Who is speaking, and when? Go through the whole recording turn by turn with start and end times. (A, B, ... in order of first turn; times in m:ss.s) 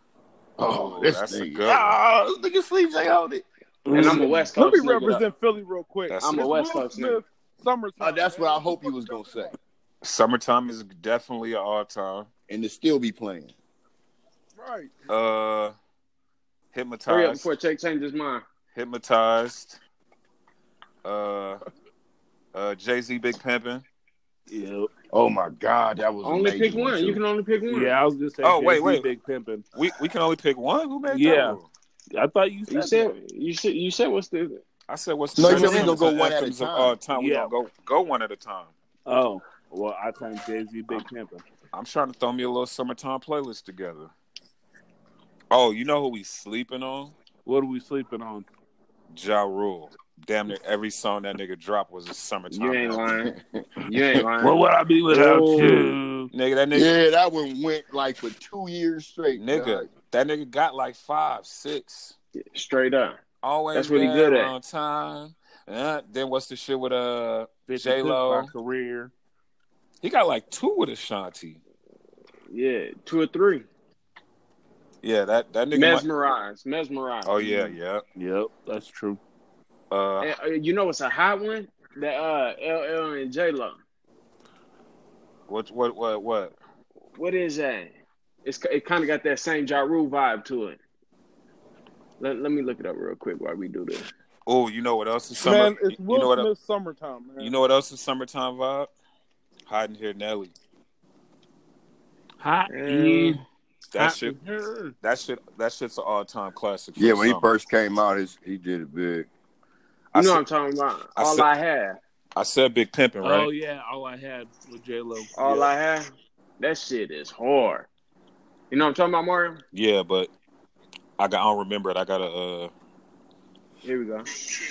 0:00.6-0:03.4 A
0:00.7-0:02.0 B
0:03.8-0:04.5 C
0:03.9-0:05.2 D
0:04.6-0:09.6 E
0:06.1-0:06.5 B
0:06.2-0:07.2 D
0:08.0-0:09.5 A
0:10.0-0:12.3 B
0:12.5-0:13.5 A
0:14.6-0:14.9 E
0:15.1-0:15.8 B
0:16.7-0:17.5 B
0:17.1-0:18.4 D
0:18.7-0:19.8 B
0:21.0-0:21.6 B
0:22.5-0:23.8 B
0:24.5-0:24.9 C
0:25.1-0:27.2 A
0:26.2-0:27.9 D
0:27.7-0:29.6 C
0:28.4-0:29.1 B
0:29.7-0:31.7 B
0:31.1-0:31.6 C
0:32.1-0:33.1 C
0:32.7-0:34.6 D
0:34.9-0:38.7 B
0:35.4-0:37.0 A
0:35.4-0:36.0 D
0:37.1-0:37.5 C
0:39.1-0:41.4 C
0:41.7-0:44.1 B
0:45.5-0:47.2 B
0:47.4-0:48.5 C
0:49.1-0:53.1 B
0:52.5-0:54.6 D
0:53.2-0:53.6 A
0:54.4-0:56.3 C
0:55.1-0:55.9 D
0:56.3-0:56.9 B
0:56.7-0:59.9 A
0:59.3-1:02.2 B
1:02.5-1:03.2 D
1:03.4-1:08.5 B
1:03.7-1:04.5 D
1:07.7-1:09.1 C
1:10.0-1:11.6 B
1:12.5-1:13.7 D
1:15.0-1:16.1 B
1:15.7-1:17.8 D
1:17.2-1:18.0 B
1:18.2-1:19.2 C
1:19.9-1:20.4 B
1:20.2-1:23.8 D
1:25.5-1:26.6 B
1:27.2-1:30.8 D
1:32.2-1:34.1 D
1:34.5-1:36.5 B
1:35.4-1:37.5 E
1:37.4-1:38.9 B
1:39.7-1:40.5 B
1:42.4-1:43.4 C
1:42.7-1:43.4 D
1:43.9-1:44.4 B
1:44.0-1:45.0 C
1:45.0-1:47.5 B
1:47.0-1:49.3 A
1:50.1-1:50.4 B
1:50.2-1:52.0 D
1:51.2-1:51.5 B
1:52.4-1:53.5 B
1:53.2-1:55.7 C
1:55.4-1:57.9 D
1:58.7-1:59.6 D
1:59.7-2:00.3 B
2:01.2-2:02.7 B
2:03.8-2:04.3 D